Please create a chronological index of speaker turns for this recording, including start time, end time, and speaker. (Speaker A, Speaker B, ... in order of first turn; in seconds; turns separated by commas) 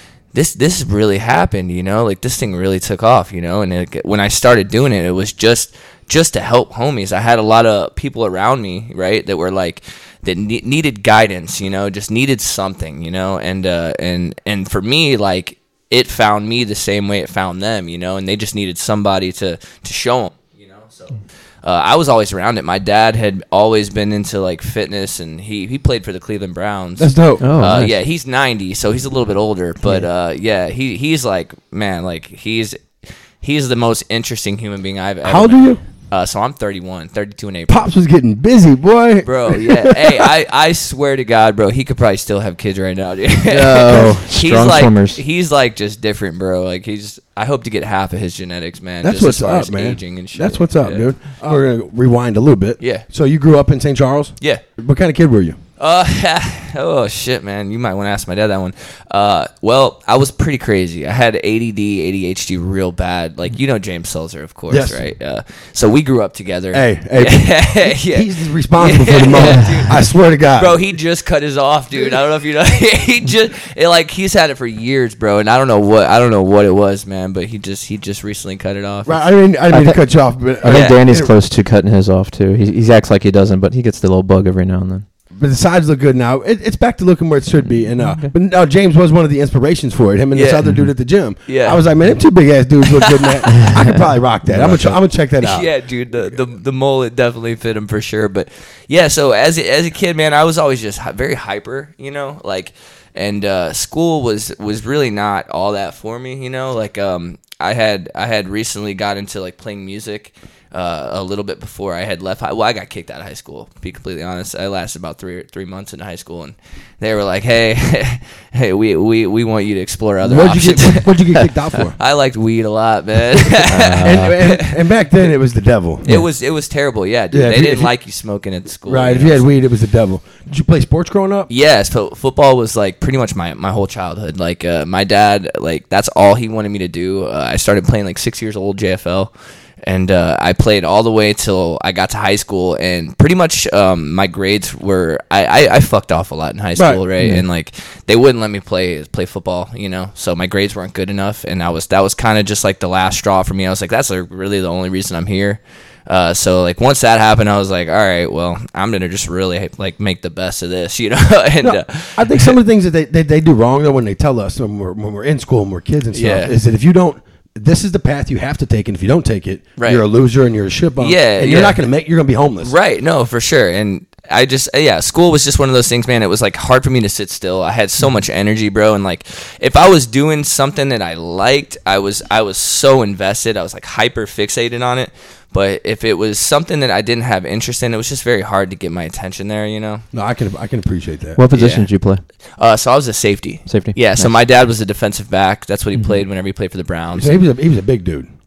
Speaker A: 0.3-37.9, Speaker B: 27.0-27.5, Speaker C: 27.4-27.9, Speaker B: 35.2-35.8, Speaker B: 37.7-40.3, Speaker A: 39.2-51.6, Speaker C: 43.4-45.2, Speaker B: 43.9-44.2, Speaker B: 49.0-55.6, Speaker A: 52.8-53.0, Speaker A: 55.8-79.2, Speaker B: 64.7-65.0, Speaker B: 66.7-70.8, Speaker B: 79.0-81.3, Speaker C: 79.7-80.0, Speaker C: 80.6-85.0, Speaker A: 80.7-81.0, Speaker B: 85.3-95.7, Speaker C: 87.9-88.3, Speaker A: 90.3-90.6, Speaker C: 90.6-90.9, Speaker A: 91.5-91.8, Speaker A: 92.9-93.8, Speaker C: 94.5-94.8, Speaker A: 94.5-125.3, Speaker B: 120.2-122.0, Speaker C: 123.6-124.3, Speaker B: 124.0-126.0, Speaker A: 126.0-129.5, Speaker B: 127.3-127.9, Speaker B: 128.9-131.5, Speaker A: 131.5-139.3, Speaker A: 139.8-162.6, Speaker B: 146.8-147.0, Speaker C: 147.2-147.4, Speaker B: 161.6-172.7, Speaker A: 166.1-166.6, Speaker A: 169.8-170.0, Speaker A: 171.0-171.8, Speaker A: 172.6-190.1, Speaker B: 190.1-191.4, Speaker C: 191.3-192.2, Speaker A: 191.5-191.9, Speaker A: 192.6-197.3, Speaker C: 193.7-194.3, Speaker C: 195.9-196.2, Speaker B: 197.1-198.3